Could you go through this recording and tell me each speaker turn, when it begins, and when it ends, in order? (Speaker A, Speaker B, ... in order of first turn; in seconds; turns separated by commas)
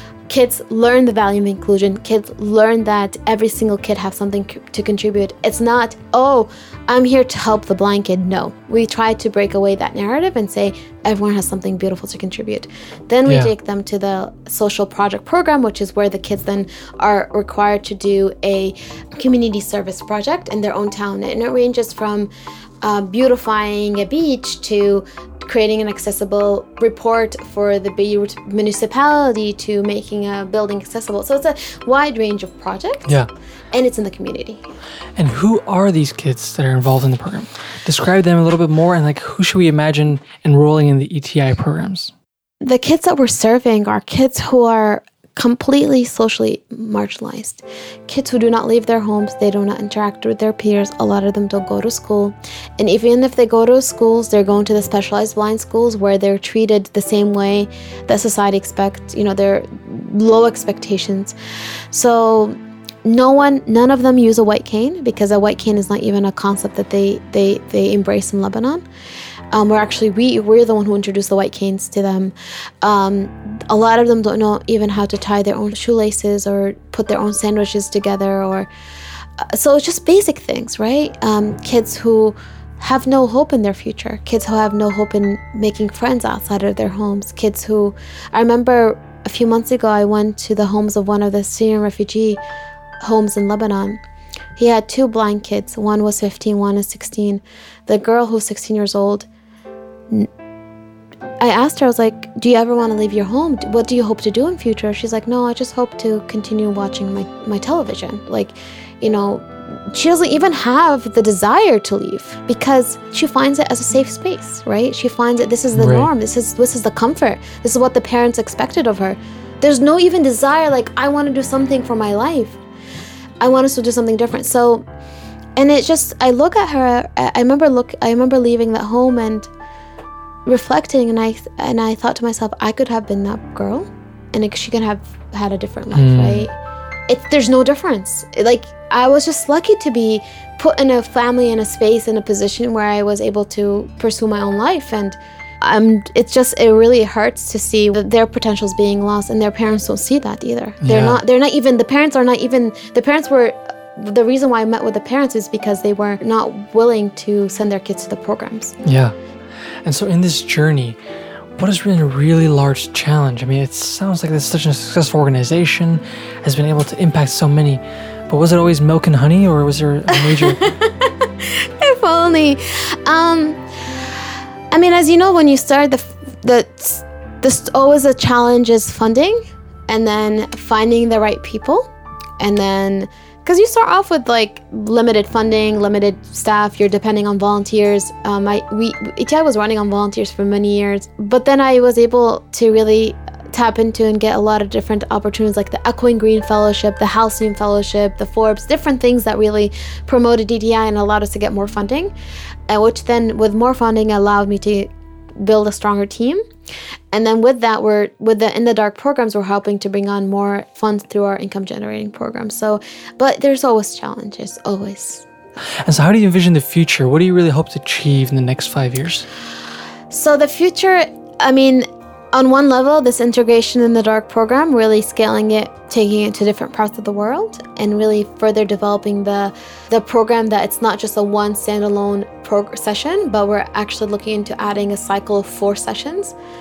Speaker A: 0.3-22.3, Speaker A: 22.8-33.1, Speaker A: 33.7-34.6, Speaker B: 35.1-42.1, Speaker A: 42.6-61.4, Speaker A: 61.9-68.8, Speaker A: 69.5-78.7, Speaker A: 79.4-92.4, Speaker A: 93.0-94.0, Speaker A: 94.6-99.3, Speaker A: 101.4-122.6, Speaker B: 115.7-116.1, Speaker A: 123.4-124.8, Speaker A: 125.6-129.5, Speaker A: 130.4-136.5, Speaker B: 135.9-136.4, Speaker A: 137.1-158.8, Speaker B: 150.8-151.2, Speaker B: 158.8-159.1, Speaker B: 159.8-161.0, Speaker B: 161.6-170.6, Speaker A: 170.1-173.6, Speaker A: 174.7-202.1, Speaker A: 202.7-206.4, Speaker A: 207.1-215.3, Speaker B: 215.8-219.3, Speaker A: 220.1-236.3